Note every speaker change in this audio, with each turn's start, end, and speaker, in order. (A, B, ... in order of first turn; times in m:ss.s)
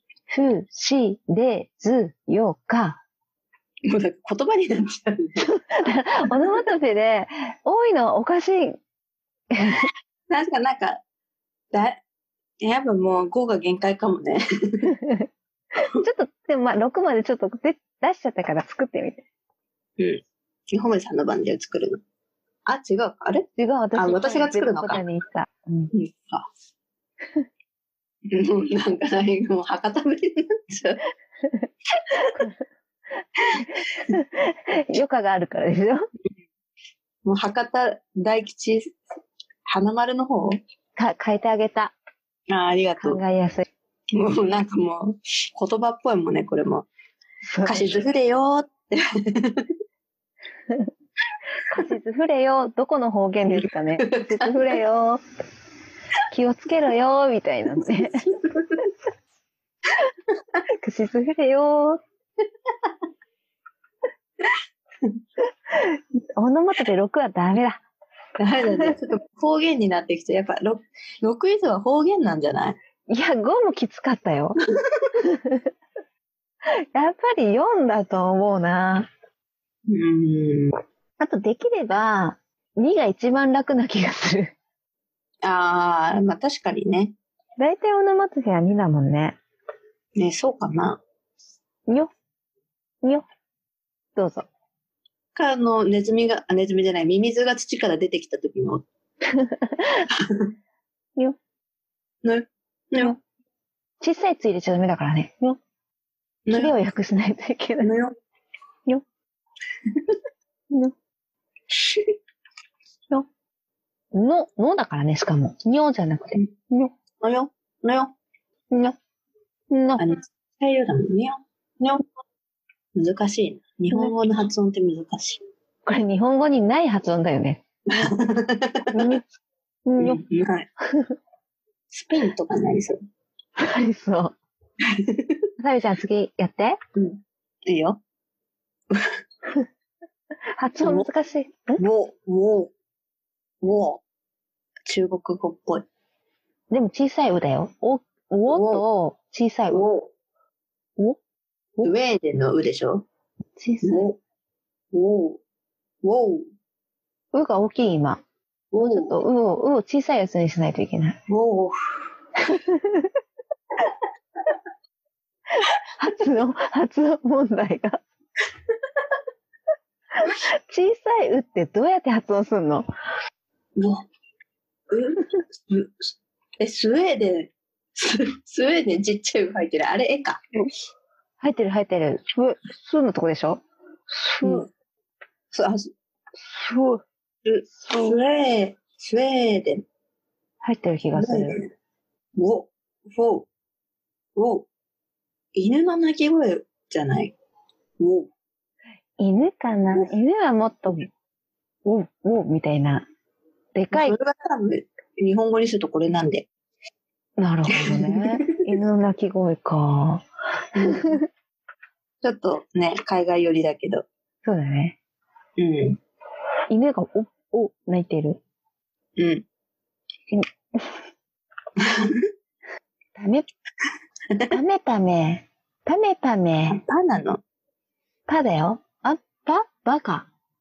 0:00.3-0:03.0 A
0:03.9-0:05.4 B
0:05.4-0:08.8 A
0:09.5-0:09.9 A
0:10.3-0:11.0 B
0:11.7-0:12.0 B
0:12.6-0:14.9 B
0:14.9-0:15.2 A
0:15.8-0:19.2 A
0:20.0-0:22.0 B
0:22.7-0:25.0 B
0:23.6-0:25.9 A
0:25.9-0:26.5 B
0:28.3-0:31.0 B
0:31.4-0:32.6 A
0:33.2-0:36.0 A
0:37.2-0:39.0 B
0:39.7-0:40.6 B
0:41.0-0:41.9 A
0:42.5-0:43.2 B
0:43.0-0:43.7 A
0:44.1-0:46.9 B
0:47.4-0:48.0 A
0:47.6-0:49.7 B
0:51.6-0:55.2 A
0:53.5-0:54.6 B
0:56.3-0:58.3 A
0:57.9-0:58.8 B
1:00.7-1:02.0 A
1:05.7-1:07.8 A
1:08.4-1:12.8 B
1:13.1-1:14.6 A
1:15.2-1:15.7 A
1:16.7-1:19.1 A
1:19.9-1:20.7 B
1:21.2-1:24.5 A
1:25.4-1:27.1 B
1:27.6-1:29.4 A
1:30.2-1:31.0 B
1:34.2-1:34.5 A
1:35.3-1:38.8 B
1:39.3-1:40.1 A
1:40.1-1:40.5 B
1:42.2-1:43.2 B
1:44.0-1:45.6 A
1:46.4-1:46.7 B
1:46.5-1:47.9 A
1:47.8-1:48.1 B
1:51.7-1:52.0 B
1:54.1-1:56.9 A
1:57.2-1:58.1 B
1:58.7-1:59.0 A
1:59.7-2:00.1 A
2:00.0-2:02.0 B
2:02.9-2:05.4 B
2:05.8-2:07.6 A
2:07.9-2:09.0 B
2:08.9-2:09.2 A
2:09.9-2:10.2 A
2:10.0-2:10.7 B
2:10.8-2:11.1 A
2:11.9-2:13.0 B
2:13.6-2:14.4 A
2:14.8-2:15.4 B
2:15.6-2:16.8 A
2:17.0-2:18.0 B
2:18.9-2:19.2 B
2:20.6-2:21.8 A
2:20.8-2:21.1 B
2:21.8-2:22.7 B
2:23.6-2:24.0 B
2:24.8-2:25.8 B
2:26.7-2:29.8 A
2:28.5-2:28.8 B
2:29.7-2:30.1 B
2:31.8-2:33.0 B
2:33.6-2:34.0 A
2:33.8-2:34.2 B
2:34.9-2:35.4 B
2:36.0-2:36.5 B
2:37.3-2:38.2 A
2:38.7-2:39.2 B
2:38.8-2:41.2 A
2:41.3-2:41.8 B
2:42.4-2:43.1 A
2:45.6-2:48.0 A
2:50.2-2:52.9 A
2:53.8-2:54.0 B
2:54.9-2:56.0 B
2:56.6-3:00.4 B
3:01.4-3:04.7 A
3:04.4-3:04.7 B
3:05.5-3:05.9 B
3:06.4-3:07.0 A
3:07.4-3:09.8 B
3:07.8-3:08.2 A
3:10.6-3:11.6 A
3:11.1-3:11.7 B
3:12.4-3:13.5 B
3:14.4-3:14.7 B
3:15.5-3:17.3 B
3:18.0-3:18.3 B
3:19.2-3:21.1 A
3:21.8-3:23.1 A
3:23.7-3:24.2 A
3:23.9-3:26.5 B
3:27.4-3:31.2 A
3:27.7-3:28.5 B
3:30.8-3:31.2 B
3:32.2-3:34.0 B
3:34.4-3:35.0 A
3:35.6-3:36.0 B
3:36.7-3:38.4 A
3:39.2-3:39.4 B
3:40.3-3:41.0 A
3:41.8-3:42.3 B
3:43.2-3:43.5 A
3:44.5-3:46.8 A
3:46.7-3:47.4 B
3:48.3-3:50.3 A